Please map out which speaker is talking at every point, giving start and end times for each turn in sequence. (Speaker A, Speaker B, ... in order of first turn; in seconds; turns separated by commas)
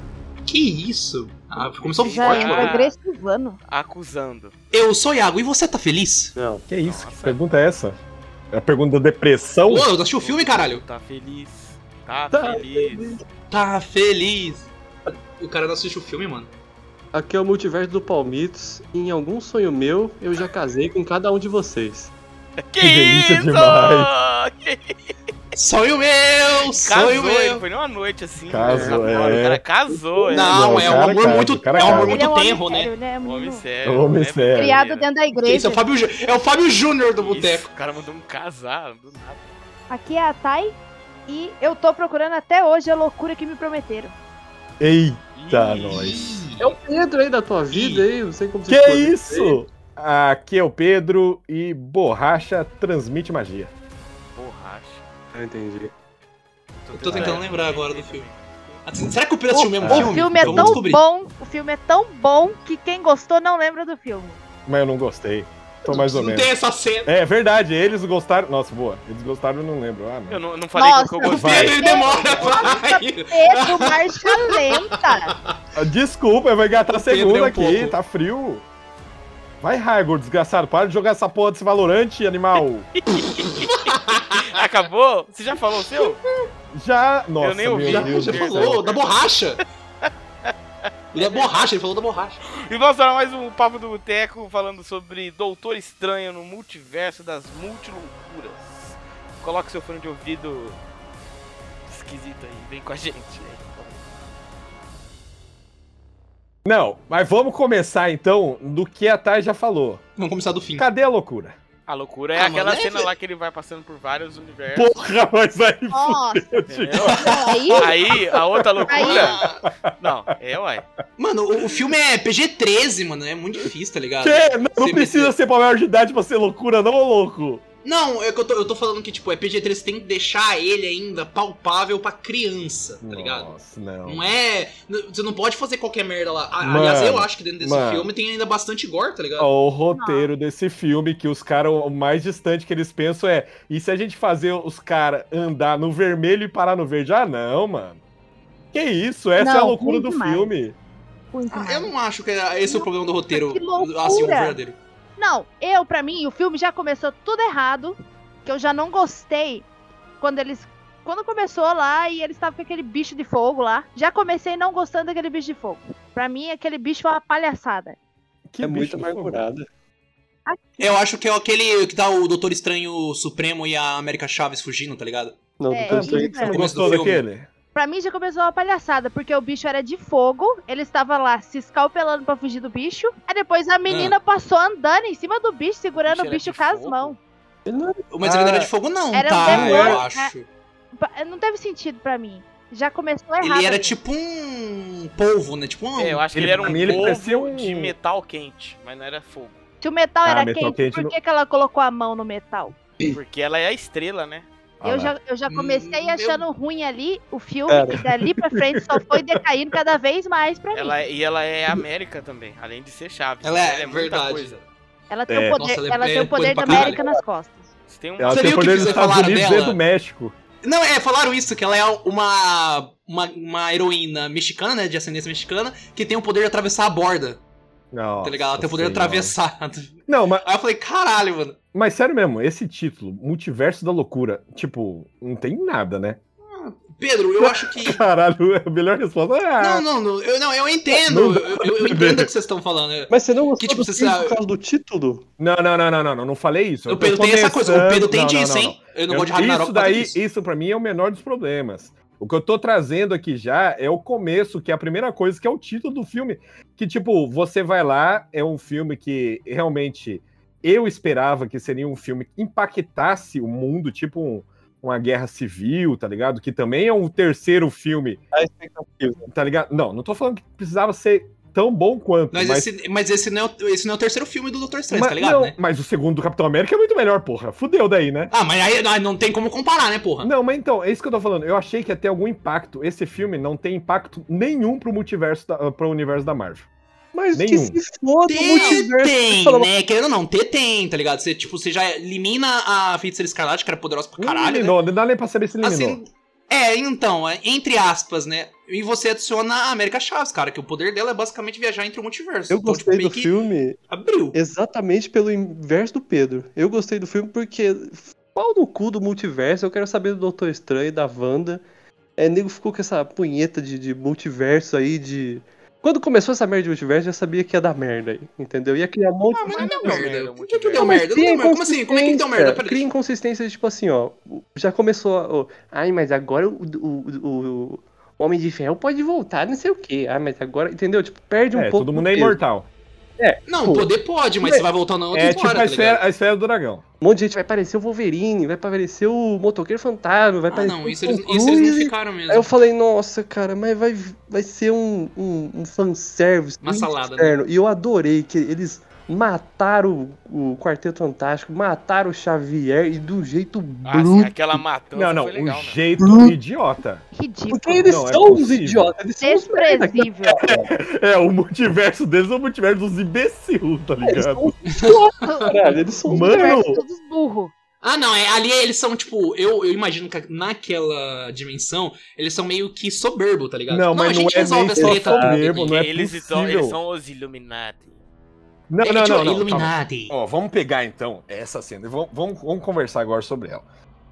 Speaker A: 0.5-2.8, Speaker B: 1.8-3.0, Speaker C: 2.1-3.6, Speaker B: 3.7-4.5, Speaker A: 4.7-6.3, Speaker D: 6.4-6.7, Speaker E: 6.7-8.0, Speaker B: 6.8-7.4, Speaker E: 8.5-9.9, Speaker A: 9.7-10.8, Speaker B: 10.2-13.1, Speaker D: 12.3-13.2, Speaker A: 13.5-16.5, Speaker D: 17.1-22.1, Speaker B: 22.7-24.9, Speaker E: 22.8-24.1, Speaker A: 25.6-27.6, Speaker B: 26.7-31.2, Speaker E: 28.5-29.6, Speaker D: 28.6-31.4, Speaker A: 30.3-32.9, Speaker E: 30.5-32.2, Speaker C: 31.8-33.6, Speaker B: 33.2-35.1, Speaker E: 33.9-34.8, Speaker C: 34.5-35.8, Speaker A: 35.5-37.7, Speaker B: 37.2-39.4, Speaker C: 39.9-40.8, Speaker C: 41.3-44.1, Speaker E: 44.8-46.3, Speaker B: 45.4-46.2, Speaker A: 45.7-46.6, Speaker D: 46.6-49.6, Speaker A: 47.7-48.1, Speaker E: 48.7-53.7, Speaker B: 54.3-55.0, Speaker D: 55.3-55.9, Speaker A: 56.9-58.3, Speaker B: 56.9-58.8, Speaker E: 57.1-57.4, Speaker D: 57.1-57.4, Speaker A: 58.9-61.0, Speaker C: 59.5-64.4, Speaker E: 59.8-60.8, Speaker E: 64.7-66.5, Speaker A: 65.9-67.1, Speaker E: 67.1-70.4, Speaker B: 70.3-72.7, Speaker C: 70.7-75.3, Speaker E: 71.3-71.8, Speaker A: 71.3-75.5, Speaker E: 75.8-78.7, Speaker A: 76.8-78.0, Speaker E: 79.6-83.0, Speaker B: 83.0-86.2, Speaker A: 83.6-84.6, Speaker E: 86.7-88.8, Speaker B: 87.4-89.1, Speaker A: 87.8-89.6, Speaker B: 90.0-90.5, Speaker A: 91.1-92.4, Speaker B: 91.2-91.7, Speaker B: 92.7-100.8, Speaker B: 101.9-104.0, Speaker E: 106.7-110.0, Speaker A: 110.2-110.9, Speaker E: 110.8-111.6, Speaker B: 111.9-115.0, Speaker A: 112.3-113.1, Speaker E: 114.7-119.1, Speaker C: 115.9-116.5, Speaker B: 116.7-119.4, Speaker C: 117.2-117.9, Speaker C: 118.9-119.3, Speaker A: 119.0-119.7, Speaker E: 119.7-120.0, Speaker B: 120.0-120.8, Speaker A: 121.2-125.3, Speaker E: 124.2-127.6, Speaker A: 127.8-133.5, Speaker E: 133.0-134.2, Speaker A: 134.1-139.5, Speaker E: 136.6-138.1, Speaker E: 139.4-148.0, Speaker C: 139.9-140.3, Speaker E: 148.7-150.8, Speaker C: 149.4-150.5, Speaker C: 151.3-151.9, Speaker A: 151.5-154.8, Speaker C: 152.7-154.6, Speaker C: 155.2-159.7, Speaker C: 160.2-168.0, Speaker E: 168.5-169.5, Speaker D: 168.6-169.7, Speaker C: 170.5-170.8, Speaker A: 170.8-175.4, Speaker D: 175.6-177.1, Speaker C: 175.7-176.6, Speaker E: 175.9-177.5, Speaker A: 176.4-177.2, Speaker C: 177.8-187.2, Speaker A: 183.9-184.2, Speaker B: 186.0-187.2, Speaker D: 187.7-188.0, Speaker A: 188.1-190.5, Speaker E: 188.2-188.7, Speaker C: 189.1-190.3, Speaker E: 189.4-190.0, Speaker C: 191.0-193.9, Speaker A: 193.4-197.2, Speaker B: 196.0-199.6, Speaker E: 196.3-197.9, Speaker C: 199.8-202.8, Speaker E: 200.2-201.1, Speaker B: 203.1-204.5, Speaker E: 204.8-205.1, Speaker C: 204.8-211.0, Speaker A: 205.5-206.5, Speaker D: 207.7-208.1, Speaker E: 208.5-209.2, Speaker B: 210.7-214.6, Speaker A: 213.4-214.7, Speaker C: 215.1-217.6, Speaker E: 215.3-215.6, Speaker A: 215.6-217.0, Speaker D: 216.7-217.2, Speaker B: 217.9-219.1, Speaker E: 218.2-220.3, Speaker A: 218.3-219.8, Speaker A: 220.6-227.4, Speaker E: 227.9-229.3, Speaker A: 228.2-231.6, Speaker E: 230.1-230.4, Speaker E: 231.7-236.2, Speaker A: 236.5-238.0, Speaker E: 237.4-239.8, Speaker A: 239.6-244.4, Speaker E: 241.1-242.3, Speaker D: 243.1-245.3, Speaker E: 245.4-268.2, Speaker A: 246.9-250.2, Speaker D: 268.3-269.2, Speaker E: 269.3-272.7, Speaker A: 272.3-275.6, Speaker E: 274.9-278.3, Speaker A: 278.3-280.3, Speaker E: 280.2-286.6, Speaker D: 287.1-289.7, Speaker E: 287.3-287.8, Speaker A: 288.3-294.8, Speaker C: 288.5-288.8, Speaker E: 294.2-296.0, Speaker A: 295.6-303.3, Speaker D: 302.5-303.8, Speaker A: 303.9-304.4, Speaker D: 304.4-311.6, Speaker D: 312.2-320.1, Speaker A: 319.3-322.9, Speaker B: 319.6-321.0, Speaker D: 320.8-332.4, Speaker E: 331.5-332.7, Speaker D: 333.2-333.9, Speaker A: 333.5-336.0, Speaker D: 334.4-334.7, Speaker E: 335.1-336.8, Speaker D: 337.0-354.6, Speaker A: 340.5-342.5, Speaker A: 346.6-347.4, Speaker B: 353.9-355.9, Speaker E: 354.9-357.0, Speaker D: 356.0-356.3, Speaker C: 357.1-357.9, Speaker D: 357.5-360.7, Speaker E: 357.8-358.9, Speaker C: 359.2-360.4, Speaker E: 360.4-364.5, Speaker D: 364.1-366.6, Speaker A: 364.7-365.0, Speaker C: 365.2-367.5, Speaker E: 366.1-366.8, Speaker A: 367.8-375.9, Speaker E: 373.7-376.8, Speaker D: 374.8-375.4, Speaker B: 375.6-378.0, Speaker E: 378.7-383.6, Speaker A: 378.8-380.2